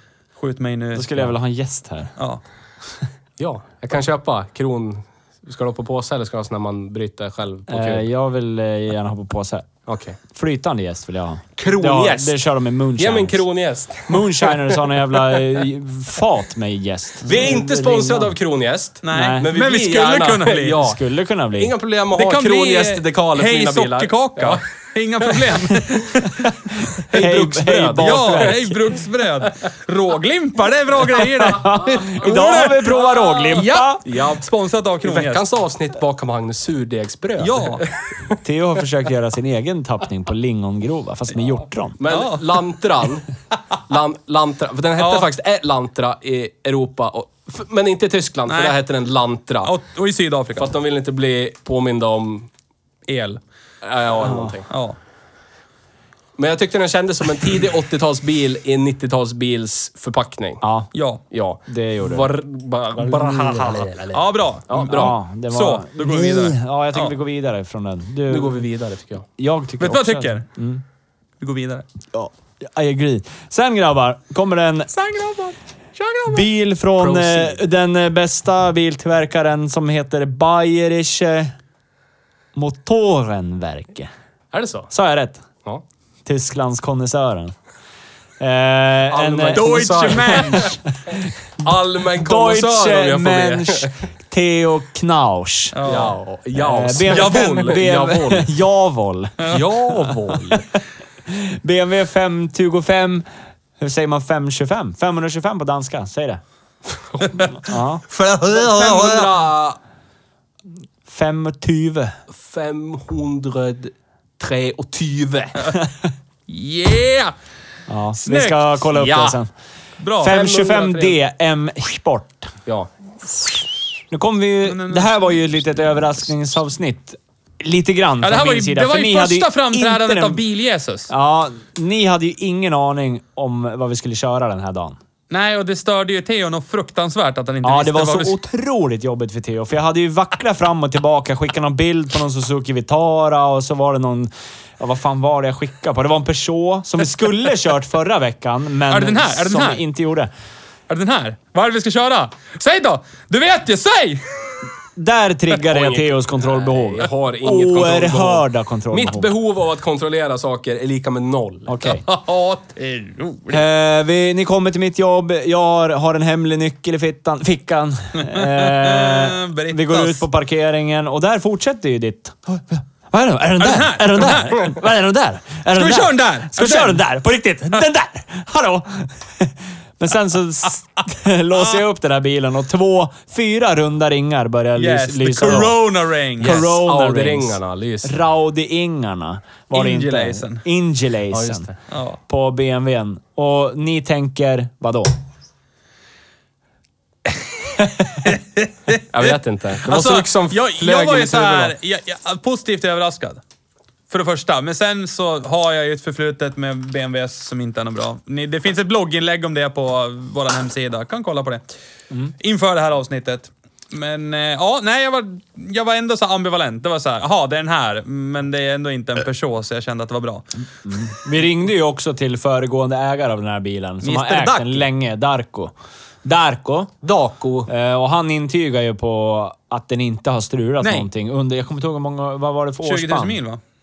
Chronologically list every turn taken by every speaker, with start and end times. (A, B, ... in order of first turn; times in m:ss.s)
0:00.4-0:01.2 A
0:00.9-0:02.1 B
0:03.4-0:08.1 C
0:07.7-0:09.7 B
0:09.9-0:10.2 C
0:10.3-0:13.4 B
0:11.6-0:12.4 C
0:13.0-0:15.5 C
0:14.1-0:18.3 B
0:17.2-0:21.0 C
0:19.0-0:20.8 A
0:19.1-0:19.5 B
0:20.7-0:21.7 B
0:21.6-0:24.6 C
0:22.2-0:27.3 A
0:25.2-0:25.5 C
0:26.2-0:26.5 B
0:27.0-0:28.6 C
0:27.0-0:28.8 B
0:28.0-0:35.4 A
0:31.1-0:34.0 B
0:32.7-0:34.5 C
0:35.0-0:38.4 C
0:37.4-0:37.9 A
0:38.4-0:42.0 B
0:42.0-0:43.3 C
0:42.1-0:42.6 A
0:43.9-0:49.7 C
0:45.0-0:45.3 A
0:48.5-0:48.8 A
0:49.6-0:50.7 A
0:50.6-0:52.5 C
0:53.1-0:53.4 A
0:53.8-0:54.7 C
0:54.2-0:54.5 B
0:54.7-0:55.0 A
0:56.4-1:00.6 C
1:00.6-1:00.9 B
1:00.9-1:01.2 A
1:01.3-1:05.2 C
1:01.7-1:02.3 B
1:03.0-1:07.1 A
1:04.9-1:08.6 B
1:08.3-1:09.3 C
1:09.4-1:10.8 B
1:09.8-1:10.4 A
1:11.4-1:11.8 A
1:12.1-1:14.9 B
1:15.0-1:16.4 A
1:16.3-1:21.6 B
1:17.0-1:17.6 C
1:22.6-1:24.1 B
1:24.5-1:24.9 C
1:24.9-1:25.4 B
1:26.2-1:27.6 B
1:28.4-1:31.1 B
1:29.1-1:30.8 C
1:29.5-1:30.8 A
1:31.6-1:34.0 C
1:32.2-1:35.8 B
1:35.7-1:36.1 A
1:35.9-1:38.5 C
1:36.6-1:39.5 B
1:37.1-1:37.8 A
1:39.4-1:39.9 A
1:39.5-1:40.6 C
1:40.3-1:40.6 B
1:41.3-1:43.3 B
1:43.8-1:46.4 B
1:47.1-1:47.5 C
1:47.5-1:48.0 B
1:48.1-1:49.3 A
1:48.5-1:49.8 C
1:51.1-1:52.2 B
1:52.3-1:55.7 C
1:56.5-1:57.3 A
1:57.9-1:59.5 B
1:58.2-1:58.7 A
1:58.9-1:59.4 C
2:00.0-2:00.4 A
2:00.2-2:02.5 B
2:00.2-2:01.2 C
2:04.1-2:10.4 B
2:04.6-2:05.1 A
2:08.2-2:11.1 A
2:11.1-2:15.0 B
2:15.3-2:18.4 A
2:17.6-2:30.3 B
2:28.9-2:29.8 A
2:30.9-2:34.5 A
2:35.0-2:39.3 B
2:35.7-2:41.8 C
2:41.7-2:42.0 B
2:41.8-2:43.6 A
2:43.5-3:05.8 B
2:48.2-2:50.2 A
2:53.6-2:54.7 A
2:55.7-2:57.0 A
3:04.8-3:06.6 A
3:06.4-3:11.7 B
3:06.4-3:08.2 C
3:09.7-3:10.6 A
3:11.3-3:11.7 C
3:11.9-3:12.2 A
3:12.3-3:15.2 B
3:18.2-3:23.4 A
3:19.1-3:21.7 C
3:24.1-3:31.6 A
3:32.4-3:40.5 A
3:40.9-3:46.9 B
3:44.0-3:44.8 A
3:47.0-3:47.7 C
3:47.7-3:53.4 B
3:50.8-3:51.1 A
3:52.8-3:53.6 A